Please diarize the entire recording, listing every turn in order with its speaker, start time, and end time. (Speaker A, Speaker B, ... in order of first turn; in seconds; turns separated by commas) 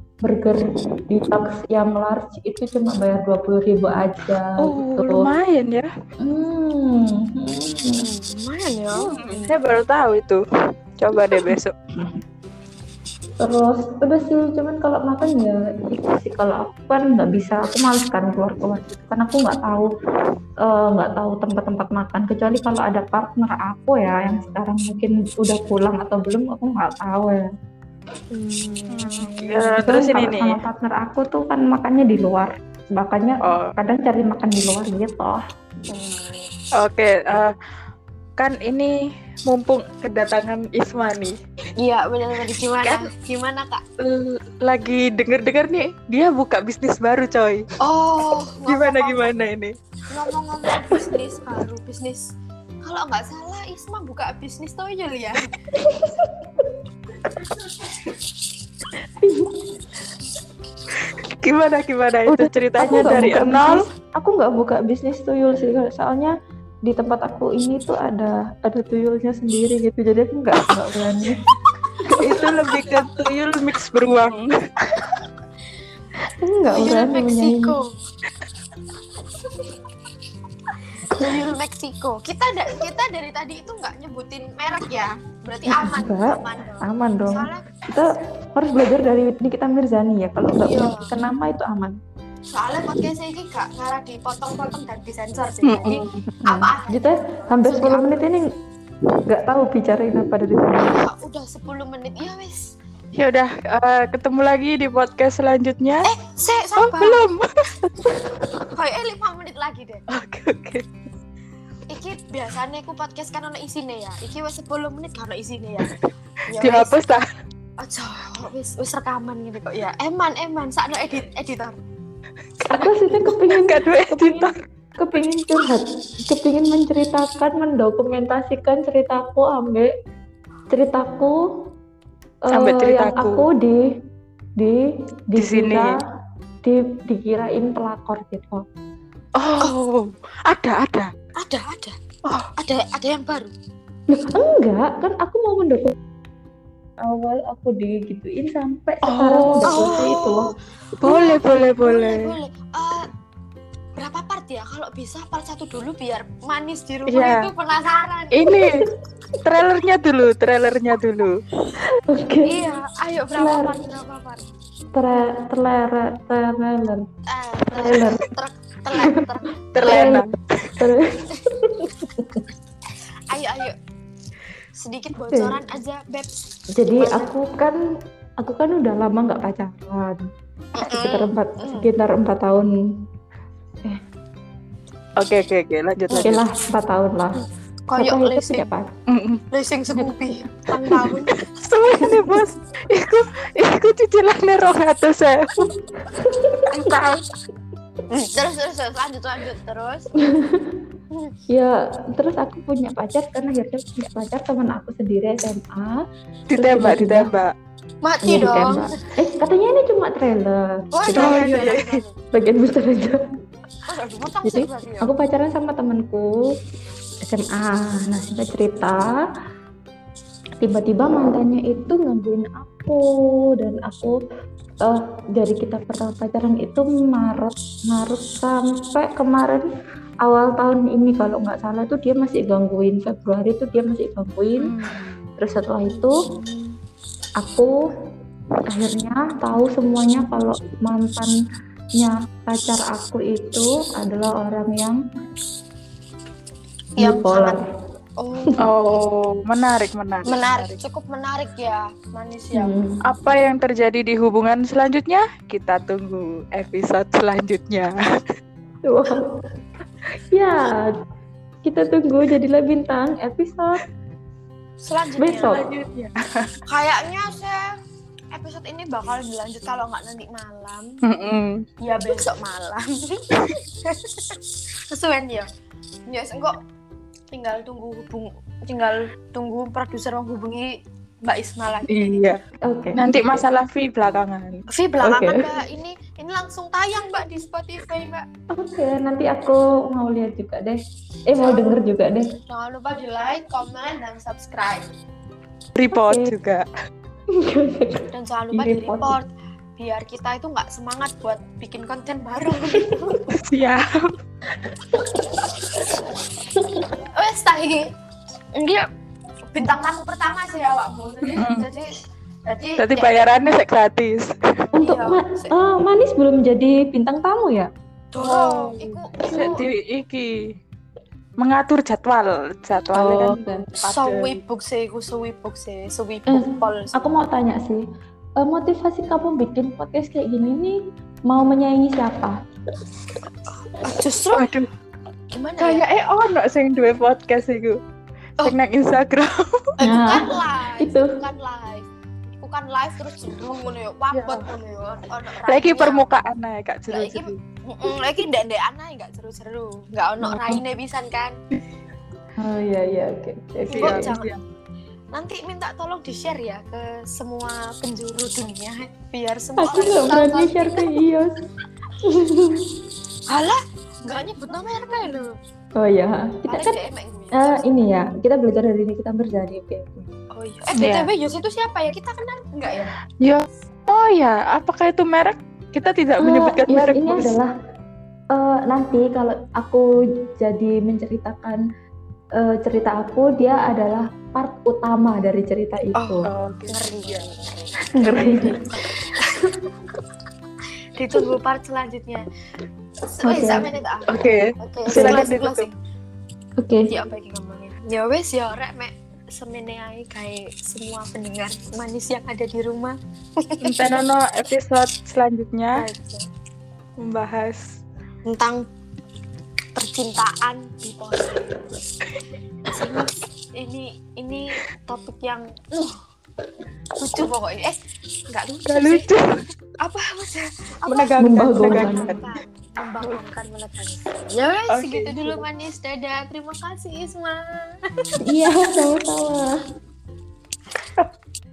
Speaker A: 0.2-5.3, Speaker B: 4.6-5.9, Speaker A: 6.2-8.0, Speaker C: 7.9-9.5, Speaker B: 8.9-10.4, Speaker B: 11.0-11.7, Speaker A: 13.4-19.9, Speaker A: 20.6-27.4, Speaker C: 28.3-29.6, Speaker B: 28.9-30.6, Speaker A: 29.7-35.4, Speaker B: 33.4-33.7, Speaker C: 35.9-36.5, Speaker B: 36.8-37.5, Speaker B: 38.4-39.0, Speaker B: 39.5-41.4, Speaker C: 41.8-43.8, Speaker B: 42.8-43.1, Speaker B: 44.0-47.6, Speaker C: 47.8-49.3, Speaker B: 48.6-49.7, Speaker C: 50.1-55.5, Speaker A: 55.8-56.6, Speaker A: 59.2-59.5, Speaker B: 61.4-63.9, Speaker A: 62.2-66.3, Speaker A: 66.8-71.4, Speaker A: 72.0-72.5, Speaker B: 72.2-75.1, Speaker C: 72.4-72.7, Speaker A: 76.4-77.8, Speaker C: 76.7-77.9, Speaker C: 81.1-87.7, Speaker A: 85.7-92.0, Speaker C: 90.6-91.1, Speaker C: 92.5-98.1, Speaker B: 95.6-96.0, Speaker A: 95.8-98.4, Speaker A: 99.2-101.0, Speaker C: 100.8-102.7, Speaker B: 103.1-106.1, Speaker C: 106.0-107.3, Speaker B: 106.8-107.5, Speaker C: 108.7-110.0, Speaker B: 110.1-110.8, Speaker C: 111.9-115.9, Speaker C: 116.5-116.9, Speaker B: 116.6-117.2, Speaker C: 117.8-121.8, Speaker A: 122.7-129.9, Speaker B: 123.5-124.6, Speaker A: 130.7-131.4, Speaker A: 132.4-133.8, Speaker B: 132.5-133.5, Speaker A: 135.3-136.0, Speaker B: 135.4-136.0, Speaker A: 136.6-138.7, Speaker B: 139.3-141.1, Speaker C: 141.4-142.0, Speaker C: 142.6-143.5, Speaker A: 144.1-145.9, Speaker A: 147.0-150.5, Speaker B: 149.0-150.0, Speaker C: 149.7-150.5, Speaker B: 151.0-152.3, Speaker C: 151.0-153.1, Speaker C: 153.9-158.4, Speaker B: 157.1-157.5, Speaker B: 158.3-158.9, Speaker B: 159.4-161.4, Speaker A: 162.1-162.6, Speaker C: 162.4-164.4, Speaker A: 163.3-163.7, Speaker A: 164.9-167.0, Speaker C: 167.3-170.1, Speaker A: 167.7-168.2, Speaker B: 169.7-170.8, Speaker A: 169.8-170.2, Speaker A: 170.8-172.4, Speaker C: 173.3-173.8, Speaker C: 174.8-177.3, Speaker A: 175.3-175.6, Speaker A: 176.8-177.8, Speaker A: 178.4-180.2, Speaker C: 180.8-181.9, Speaker A: 180.8-182.7, Speaker B: 185.2-186.4, Speaker A: 186.1-187.4, Speaker C: 187.4-188.7, Speaker A: 187.9-188.9, Speaker B: 189.1-189.4, Speaker C: 189.5-192.0, Speaker A: 189.9-190.2, Speaker B: 191.6-195.7, Speaker A: 192.0-192.4, Speaker A: 196.0-196.6, Speaker B: 196.7-197.2, Speaker C: 198.1-200.1, Speaker A: 200.3-200.8, Speaker A: 201.5-206.0, Speaker B: 206.5-207.5, Speaker A: 206.5-207.3, Speaker C: 208.0-209.0, Speaker A: 208.2-211.8, Speaker C: 210.9-212.2, Speaker B: 211.2-211.9, Speaker A: 212.3-213.2, Speaker C: 213.9-215.1, Speaker A: 214.4-216.3, Speaker A: 217.2-219.1, Speaker A: 220.6-223.0, Speaker A: 223.6-224.1, Speaker A: 224.8-229.6, Speaker A: 230.2-234.7, Speaker B: 234.6-235.2, Speaker A: 235.4-236.2, Speaker C: 235.9-236.8, Speaker A: 237.4-237.7, Speaker A: 238.7-241.3, Speaker A: 242.0-245.0, Speaker C: 246.9-247.6, Speaker A: 247.0-247.6, Speaker C: 248.2-248.6, Speaker B: 248.6-250.8, Speaker C: 250.2-252.8, Speaker A: 252.5-253.0, Speaker B: 253.0-257.9, Speaker A: 258.8-259.4, Speaker A: 260.3-260.9, Speaker A: 261.6-263.8, Speaker C: 264.8-265.6, Speaker A: 265.2-265.7, Speaker B: 265.5-266.5, Speaker C: 266.7-267.6, Speaker C: 268.3-270.9, Speaker B: 271.0-271.6, Speaker C: 271.8-275.5, Speaker C: 276.1-276.6, Speaker C: 277.3-282.4, Speaker B: 281.9-282.4, Speaker A: 282.7-283.4, Speaker B: 282.9-284.6, Speaker C: 284.7-288.2, Speaker A: 285.0-285.5, Speaker A: 288.5-292.3, Speaker C: 291.3-291.8, Speaker C: 292.5-294.9, Speaker B: 295.7-296.7, Speaker A: 296.1-296.3, Speaker A: 297.3-299.2, Speaker C: 298.1-303.3, Speaker B: 303.3-304.1, Speaker A: 305.0-305.4, Speaker C: 307.1-307.9, Speaker C: 308.5-308.9, Speaker C: 309.5-311.9, Speaker B: 311.3-311.6, Speaker C: 312.5-313.6, Speaker B: 312.8-314.3, Speaker C: 314.7-315.5, Speaker A: 314.8-317.7, Speaker C: 318.1-319.6, Speaker B: 318.2-320.3, Speaker B: 321.4-324.4, Speaker A: 322.9-323.6, Speaker C: 323.9-327.0, Speaker A: 326.3-327.8, Speaker A: 328.4-330.7, Speaker A: 331.3-332.4, Speaker C: 333.8-334.5, Speaker B: 334.3-334.7, Speaker C: 335.3-335.9, Speaker B: 335.6-337.8, Speaker B: 338.4-339.7, Speaker C: 339.8-346.2, Speaker A: 339.8-340.3, Speaker A: 340.8-341.1, Speaker B: 344.1-344.4, Speaker B: 345.4-347.4, Speaker C: 346.9-351.3, Speaker A: 350.2-350.6, Speaker A: 352.4-354.1, Speaker B: 353.7-354.4, Speaker C: 353.7-354.3, Speaker C: 355.1-361.0, Speaker A: 359.6-361.3, Speaker A: 362.0-362.7, Speaker C: 363.3-365.3, Speaker A: 365.8-366.7, Speaker C: 366.5-367.8, Speaker A: 367.3-370.1, Speaker C: 370.3-372.9, Speaker B: 370.8-371.1, Speaker B: 373.2-377.4, Speaker A: 376.2-377.5, Speaker A: 378.3-379.8, Speaker A: 380.4-381.6, Speaker A: 382.4-386.3, Speaker C: 385.9-389.4, Speaker B: 386.2-387.2, Speaker A: 388.0-388.6, Speaker C: 390.9-392.2, Speaker C: 393.1-395.7, Speaker A: 393.2-393.6, Speaker B: 394.1-395.7, Speaker A: 394.9-395.2, Speaker A: 396.6-396.9, Speaker C: 396.9-403.9, Speaker B: 403.6-405.9, Speaker C: 405.7-406.2, Speaker B: 407.0-407.6, Speaker C: 408.2-408.6, Speaker C: 409.7-411.7, Speaker C: 412.7-416.0, Speaker C: 417.0-417.7, Speaker C: 418.3-419.1, Speaker B: 418.7-419.2, Speaker C: 419.8-427.8, Speaker B: 420.9-422.3, Speaker A: 421.2-422.1, Speaker B: 424.7-425.4, Speaker A: 428.2-429.6